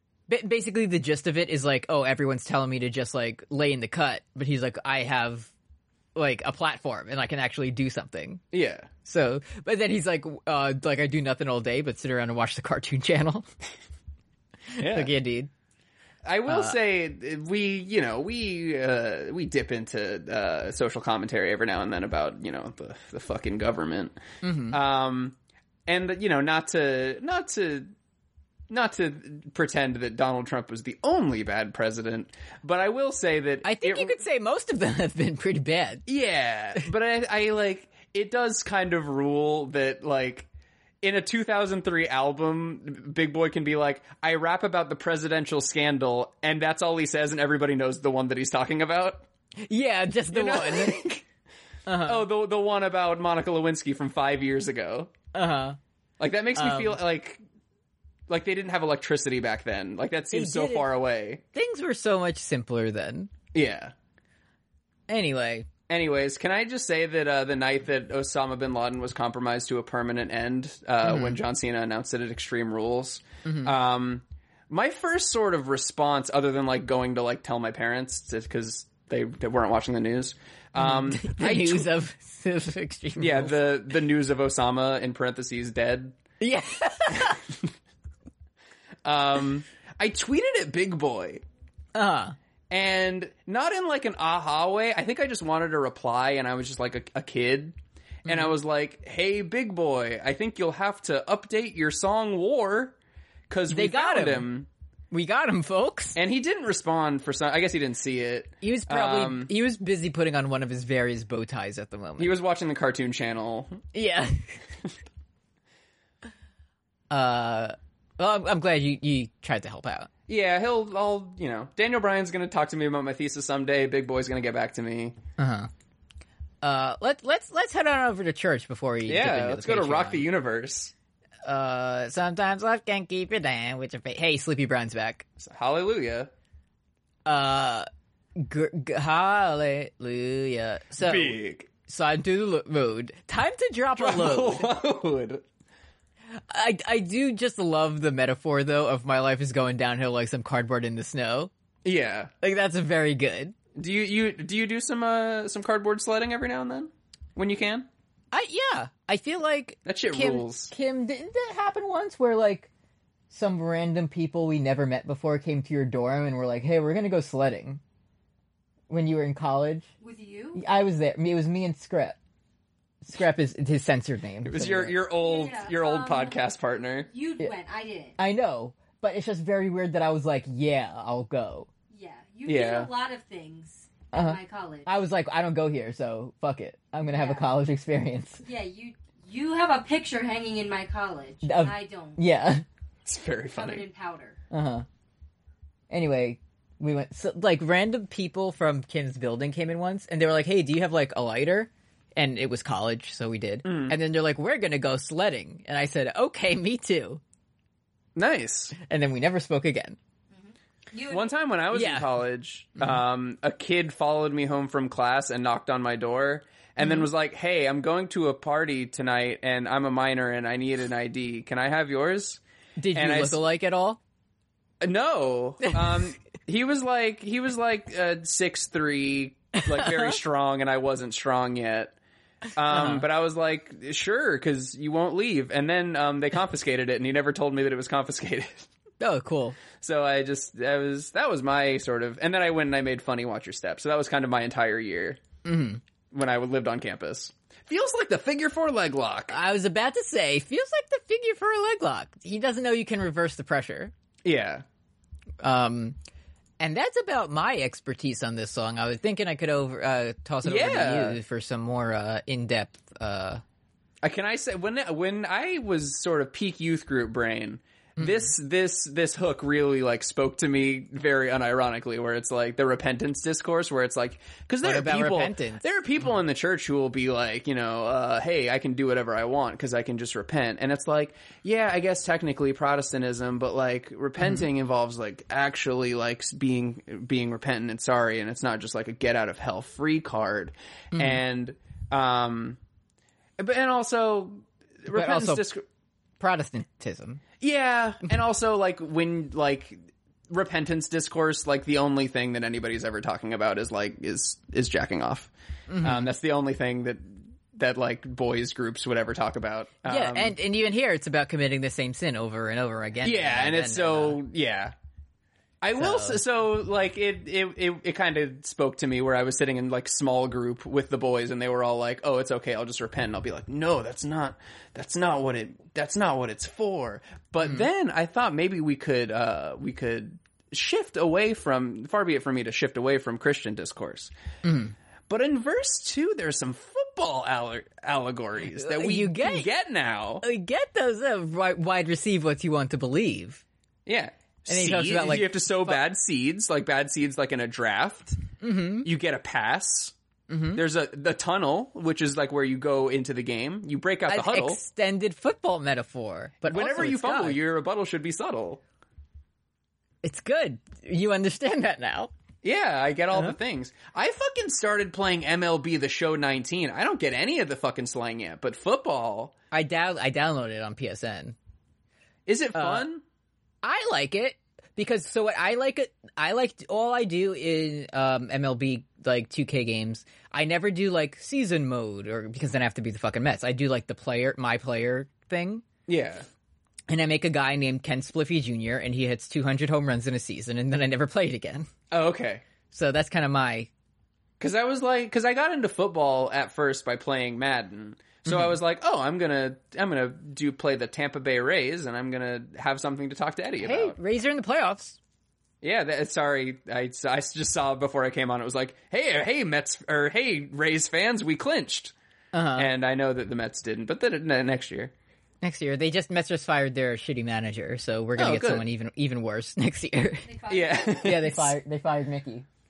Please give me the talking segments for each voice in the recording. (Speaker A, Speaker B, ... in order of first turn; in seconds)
Speaker A: 0.3-5.5, 6.1-8.4, 9.0-13.5, 14.7-15.5, 16.5-16.8, 24.4-24.8, 33.6-36.0, 49.6-51.0, 51.9-52.3, 55.3-55.8, 56.5-57.0, 60.3-60.9, 61.5-63.3, 65.1-65.7, 71.0-71.4, 73.4-73.7, 80.8-83.6, 86.4-87.4, 91.9-92.3, 98.2-98.5, 103.7-104.5, 105.1-106.2, 108.6-112.3, 113.9-114.6, 117.1-120.1, 125.4-125.7, 126.6-130.3, 131.4-135.2, 137.2-144.7, 146.4-151.5, 152.4-153.5, 158.3-162.7, 163.3-167.8, 168.9-169.9, 170.6-172.2, 173.0-175.0, 178.2-181.7, 184.1-188.4, 191.4-192.6, 194.5-194.8, 195.9-207.2, 208.8-210.0, 211.7-212.1, 216.8-217.1, 222.8-224.0, 229.5-230.2, 232.6-233.1, 239.0-239.6, 245.4-245.8, 249.3-253.9, 255.4-256.0, 256.6-263.4, 268.0-268.3, 274.6-275.6, 284.2-284.4, 290.9-291.2, 294.9-295.5, 296.2-297.2, 305.7-306.1, 309.8-314.2, 315.8-316.2, 334.4-334.7, 338.5-339.5, 340.2-343.4, 344.5-345.8, 348.4-348.9, 350.3-350.6, 354.1-357.4, 360.0-362.1, 369.5-371.4, 372.5-372.9, 373.6-385.6, 386.9-391.7, 392.7-393.7, 398.2-398.5, 403.6-405.0, 412.3-412.7, 415.4-420.3, 421.0-422.4
Speaker B: 8.5-8.9, 14.8-15.1, 16.2-24.2, 24.7-25.4, 25.9-27.9, 28.7-34.2, 36.0-40.5, 41.0-49.3, 50.3-51.2, 52.0-55.1, 56.2-57.4, 58.3-61.4, 63.5-63.9, 65.9-81.9, 83.2-86.2, 87.2-87.5, 89.0-91.4, 92.7-103.0, 103.5-104.7, 106.2-109.5, 112.2-113.8, 120.3-125.2, 129.1-130.9, 135.4-136.3, 141.0-141.7, 144.0-145.4, 151.8-152.3, 153.7-157.9, 159.8-160.7, 174.4-177.1, 182.4-182.9, 193.1-193.9, 203.6-203.9, 208.1-208.7, 211.1-222.4, 222.9-223.4, 224.8-231.9, 232.6-238.7, 239.8-245.2, 246.1-249.3, 254.2-254.6, 260.4-261.2, 264.0-292.6, 293.4-295.6, 297.4-305.3, 305.8-310.4, 313.0-314.7, 315.6-334.1, 335.1-340.2, 343.9-348.2, 348.8-349.9, 350.5-354.6, 356.4-358.6, 362.4-369.3, 372.2-373.0, 385.9-386.3, 391.9-392.4, 394.4-403.9, 405.6-411.9, 412.6-414.9, 418.2-418.7, 420.5-421.6
Speaker C: 170.0-170.6, 175.2-176.5, 177.0-178.2, 181.9-184.9, 187.1-187.5, 188.4-192.2, 193.5-194.4, 210.3-211.4, 420.2-421.3